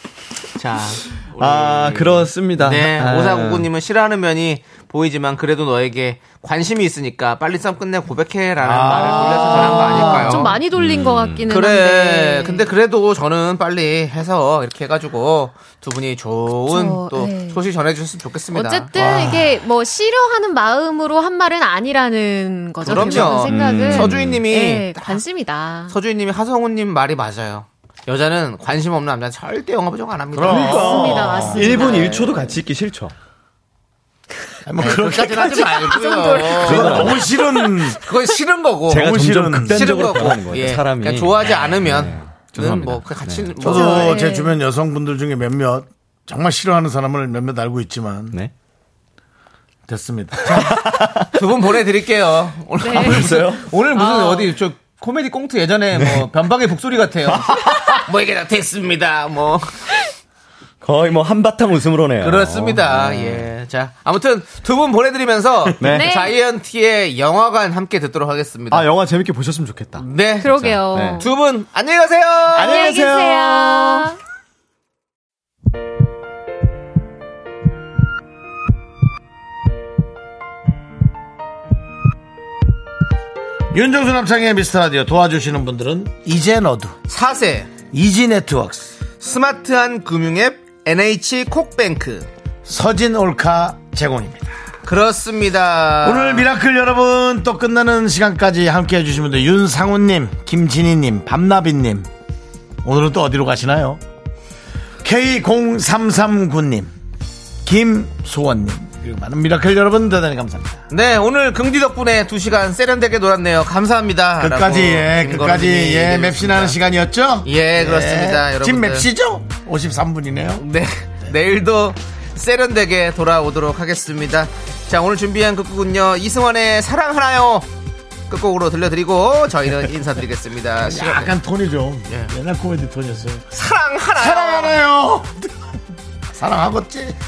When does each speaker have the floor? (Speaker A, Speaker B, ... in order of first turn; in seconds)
Speaker A: 0.6-10.6, 11.5-19.3, 22.8-25.2, 25.9-32.3, 34.8-44.2, 50.5-50.8, 51.3-59.8, 62.2-68.9, 70.0-70.5, 71.2-72.8, 87.1-87.7, 89.2-92.3, 94.8-96.5, 110.9-116.8, 117.4-119.1, 120.6-127.7, 128.3-131.3, 132.1-132.3, 133.5-134.8
Speaker B: 1.4-3.7, 10.8-11.5, 22.9-24.4, 30.5-33.1, 36.5-37.4, 38.9-43.6, 50.6-51.3, 52.9-53.7, 56.0-56.3, 57.3-58.0, 60.8-63.5, 65.8-66.2, 68.7-71.2, 72.5-74.0
Speaker C: 8.6-10.6, 18.9-19.6, 22.9-23.3, 30.3-31.9, 34.6-38.0, 38.9-40.2, 43.6-48.4, 49.9-50.7, 83.7-87.0, 87.9-89.0, 92.7-94.6, 96.0-102.1, 102.8-104.0, 105.0-106.9, 107.6-110.8, 114.4-120.6, 130.8-133.5, 134.2-135.7, 136.3-137.2
Speaker D: 9.2-12.7, 16.7-17.6, 18.5-25.9, 30.6-32.3, 35.9-36.6, 43.7-44.6, 52.8-54.6, 65.8-66.3, 70.4-71.3, 72.6-74.2